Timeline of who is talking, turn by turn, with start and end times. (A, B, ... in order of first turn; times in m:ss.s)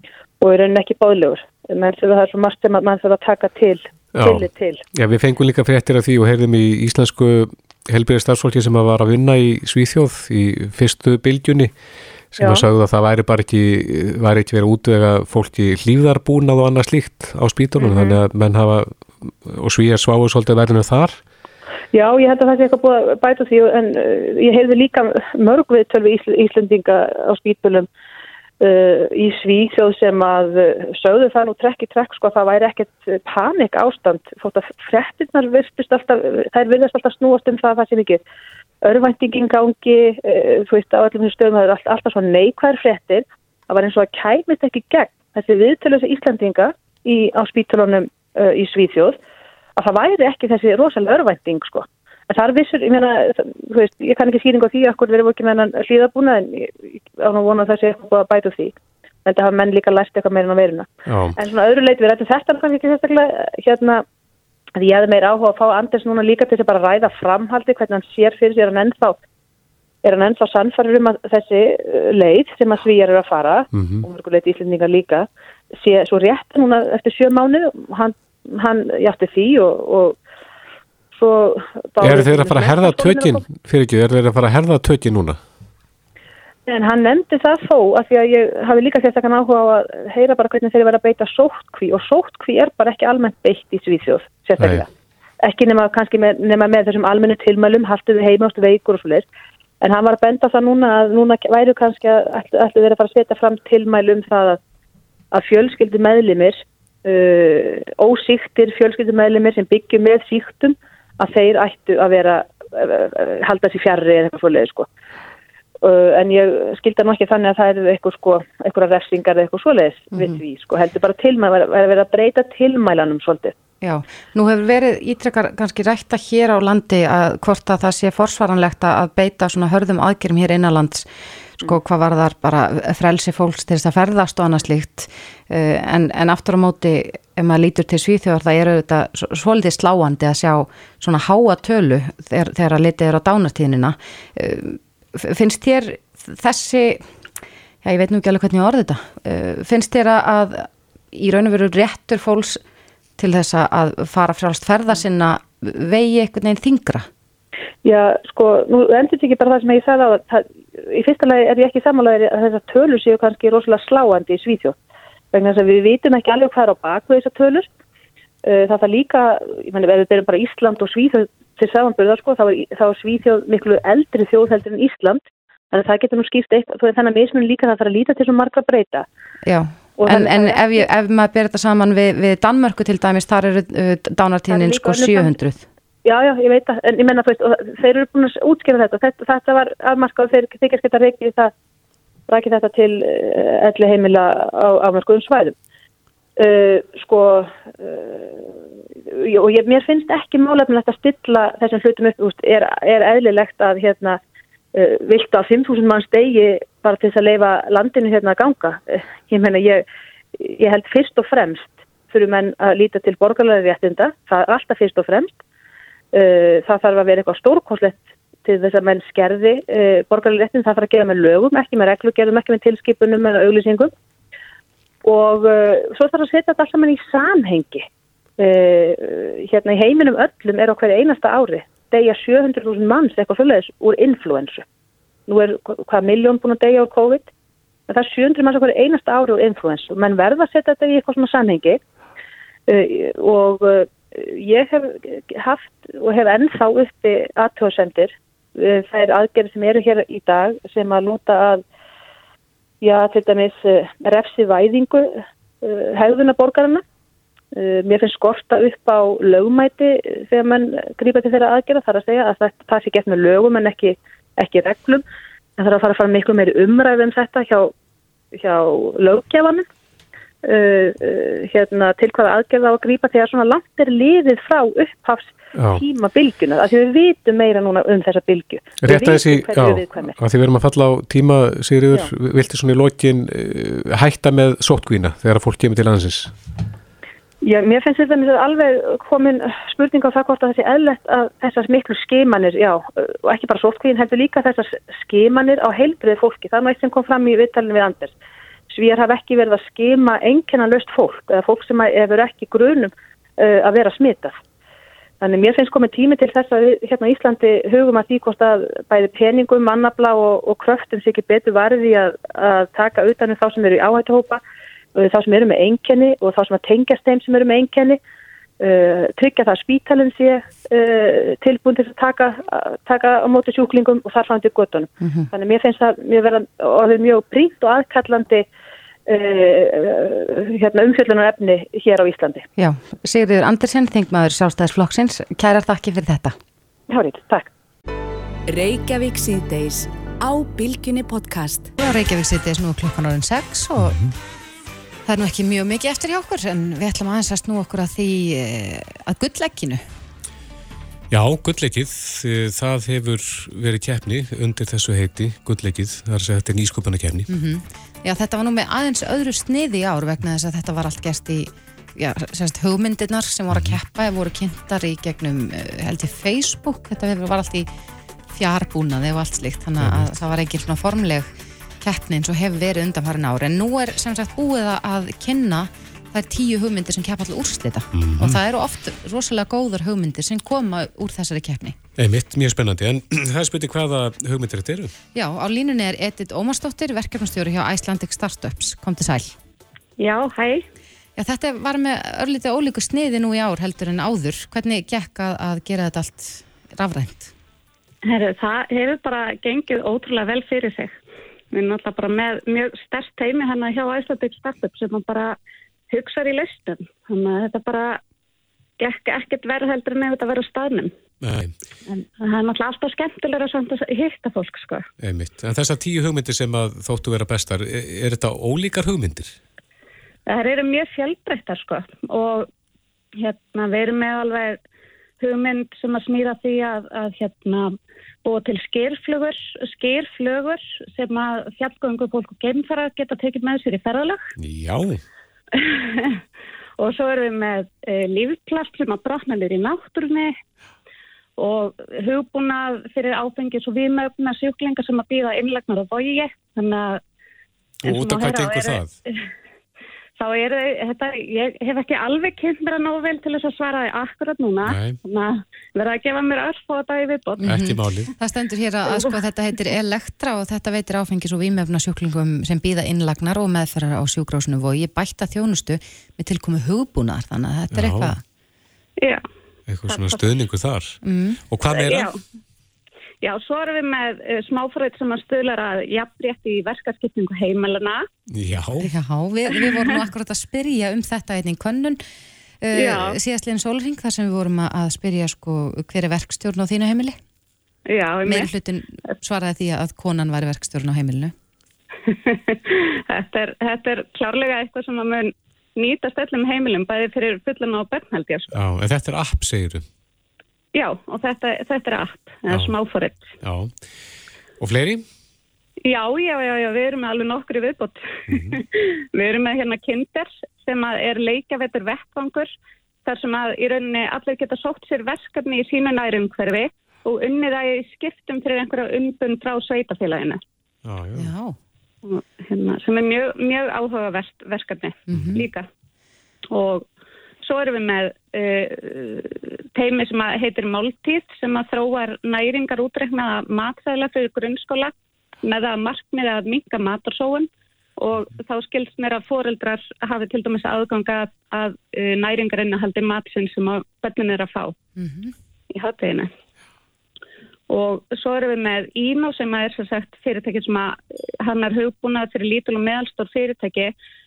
0:00.4-0:04.8 A
0:04.2-0:11.7 B
0:12.4-0:21.2 B
0:12.4-0:12.6 A
0:17.8-0:18.2 A
0:21.9-0:27.9 A
0:28.6-0:38.2 A
0:38.8-0:49.2 A
0:49.8-1:04.0 A
1:01.1-1:01.4 B
1:04.8-1:09.2 A
1:10.0-1:20.2 A
1:13.7-1:14.0 B
1:21.1-1:23.4 A
1:22.0-1:25.4 B
1:26.7-1:34.9 A
1:34.6-1:34.8 B
1:35.4-1:39.3 A
1:39.8-1:44.6 A
1:45.3-1:54.9 A
1:55.8-2:03.6 A
2:00.1-2:00.4 C
2:03.8-2:11.1 C
2:11.6-2:27.1 C
2:27.8-2:32.6 C
2:33.2-2:37.1 C
2:37.8-2:44.8 A
2:45.3-2:47.7 A
2:48.4-2:59.1 A
2:59.4-3:05.7 C
3:00.0-3:00.8 A
3:04.5-3:05.4 A
3:06.0-3:11.5 A
3:12.3-3:15.6 A
3:16.4-3:24.2 A
3:24.7-3:29.8 A
3:30.4-3:35.4 A
3:36.1-3:43.9 A
3:45.0-3:47.9 A
3:48.4-3:54.6 A
3:55.3-3:57.3 A
3:57.9-4:01.8 A
4:02.7-4:11.6 A
4:12.8-4:16.8 A
4:17.5-4:25.0 A
4:25.6-4:27.7 A
4:28.3-4:29.7 A
4:30.4-4:40.1 A
4:35.6-4:35.8 B
4:38.8-4:46.3 B
4:47.4-4:58.1 A
4:58.7-5:04.4 A
5:05.2-5:14.4 A
5:15.0-5:18.0 A
5:18.6-5:28.4 A
5:25.0-5:25.3 C
5:29.1-5:32.4 A
5:32.6-5:36.4 C
5:36.9-5:37.5 A
5:38.5-5:41.7 D
5:41.8-5:44.0 C
5:43.8-5:44.1 B
5:45.1-5:49.8 C
5:51.1-5:57.3 B
5:57.3-6:07.7 C
6:03.5-6:03.8 B
6:08.3-6:11.3 C
6:09.8-6:10.1 B
6:11.8-6:21.8 C
6:18.0-6:18.4 B
6:22.0-6:24.9 B
6:25.2-6:29.4 C
6:30.0-6:30.6 E
6:31.2-6:37.3 C
6:38.0-6:41.0 E
6:41.5-6:45.4 E
6:45.9-6:48.0 E
6:48.8-6:50.9 E
6:51.2-6:51.5 B
6:51.9-6:54.9 E
6:55.0-6:59.4 B
7:00.3-7:02.5 E
7:03.2-7:04.6 E
7:05.2-7:07.7 E
7:08.2-7:14.3 E
7:14.4-7:15.0 B
7:15.5-7:16.2 E
7:16.8-7:20.3 E
7:21.4-7:27.0 E
7:27.8-7:29.0 B
7:27.8-7:29.3 E
7:30.2-7:37.5 E
7:34.6-7:35.0 B
7:37.4-7:48.2 C
7:37.4-7:38.1 B
7:38.9-7:39.2 E
7:47.7-7:48.2 B
7:49.7-7:52.1 B
7:49.9-7:50.2 E
7:51.0-7:51.4 C
7:51.7-7:52.2 E
7:53.2-7:58.0 E
7:58.3-7:58.9 B
7:58.8-8:02.0 C
7:59.6-8:00.0 E
8:02.6-8:07.2 C
8:02.7-8:03.2 E
8:07.9-8:08.5 E
8:08.2-8:11.3 C
8:12.1-8:18.5 E
8:18.5-8:19.8 B
8:20.8-8:23.4 E
8:22.5-8:22.8 B
8:23.4-8:23.7 B
8:24.6-8:25.0 B
8:25.8-8:32.5 E
8:28.3-8:28.6 B
8:33.0-8:40.4 E
8:40.8-8:41.3 B
8:41.2-8:41.6 C
8:42.0-8:45.7 E
8:45.1-8:45.4 B
8:46.5-8:46.9 E
8:47.4-9:04.7 E
9:05.0-9:05.3 C
9:05.7-9:06.3 E
9:07.7-9:13.9 E